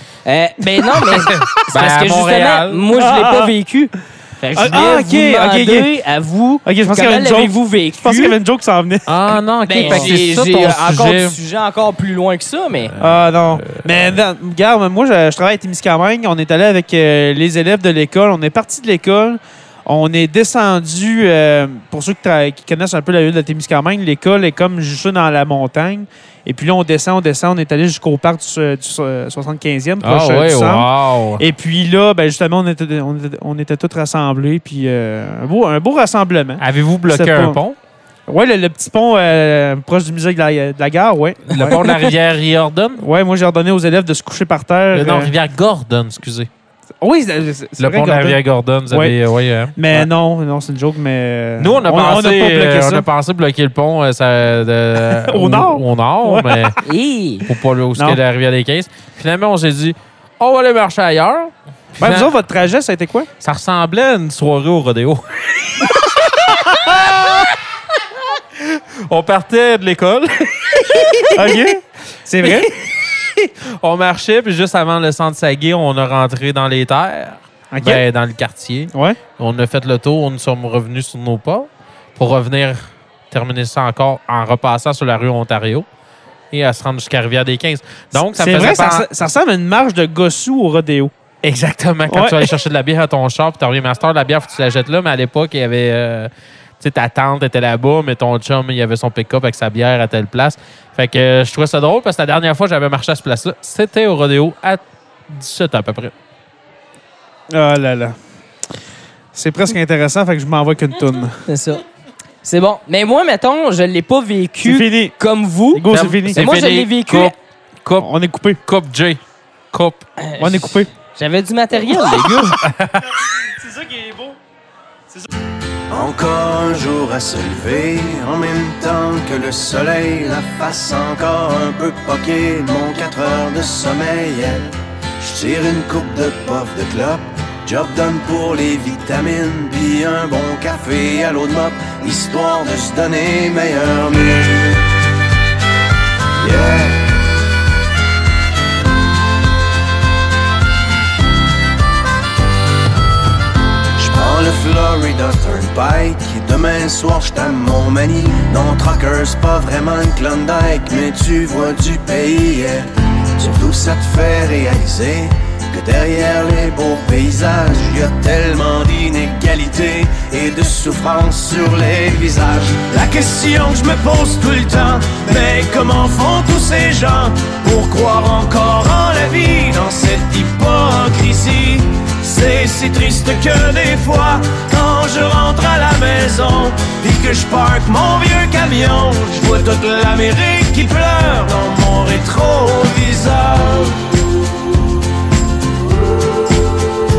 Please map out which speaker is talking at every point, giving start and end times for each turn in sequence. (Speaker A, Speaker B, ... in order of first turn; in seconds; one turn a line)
Speaker A: 0.2-8.4
Speaker B: 1.3-2.9
Speaker C: 3.0-3.5
Speaker C: 4.5-5.9
Speaker C: 6.7-9.2
Speaker B: 9.1-11.4
Speaker A: 9.7-12.9
Speaker C: 9.8-10.1
Speaker C: 13.0-37.6
Speaker B: 13.0-14.1
Speaker B: 30.0-31.4
Speaker B: 36.6-37.8
Speaker C: 38.3-41.9
Speaker B: 41.5-43.0
Speaker C: 43.0-45.3
Speaker B: 44.9-46.5
Speaker C: 47.0-49.2
Speaker B: 47.8-50.1
Speaker C: 49.8-53.1
Speaker B: 51.6-56.8
Speaker C: 55.1-56.8
Speaker A: 56.8-57.5
Speaker B: 57.5-62.3
Speaker C: 62.0-63.3
Speaker B: 63.4-67.5
Speaker C: 66.7-67.0
Speaker B: 68.6-71.7
Speaker C: 71.3-72.7
Speaker B: 72.4-85.9
Speaker C: 77.7-78.0
Speaker C: 78.9-79.2
Speaker B: 86.5-89.1
Speaker C: 88.1-91.1
Speaker B: 91.4-106.1
Speaker C: 92.1-92.5
Speaker C: 107.5-108.2
Speaker C: 109.3-111.4
Speaker A: 111.5-111.8
Speaker A: 112.4-117.3
Speaker C: 114.6-115.2
Speaker C: 115.7-116.5
Speaker B: 115.9-118.1
Speaker C: 118.0-118.6
Speaker B: 118.7-119.2
Speaker B: 119.7-120.1
Speaker A: 120.2-122.6
Speaker C: 120.4-120.9
Speaker B: 122.6-123.2
Speaker C: 123.2-124.4
Speaker D: 125.9-144.8
Speaker D: 146.4-147.1
Speaker D: 154.0-194.0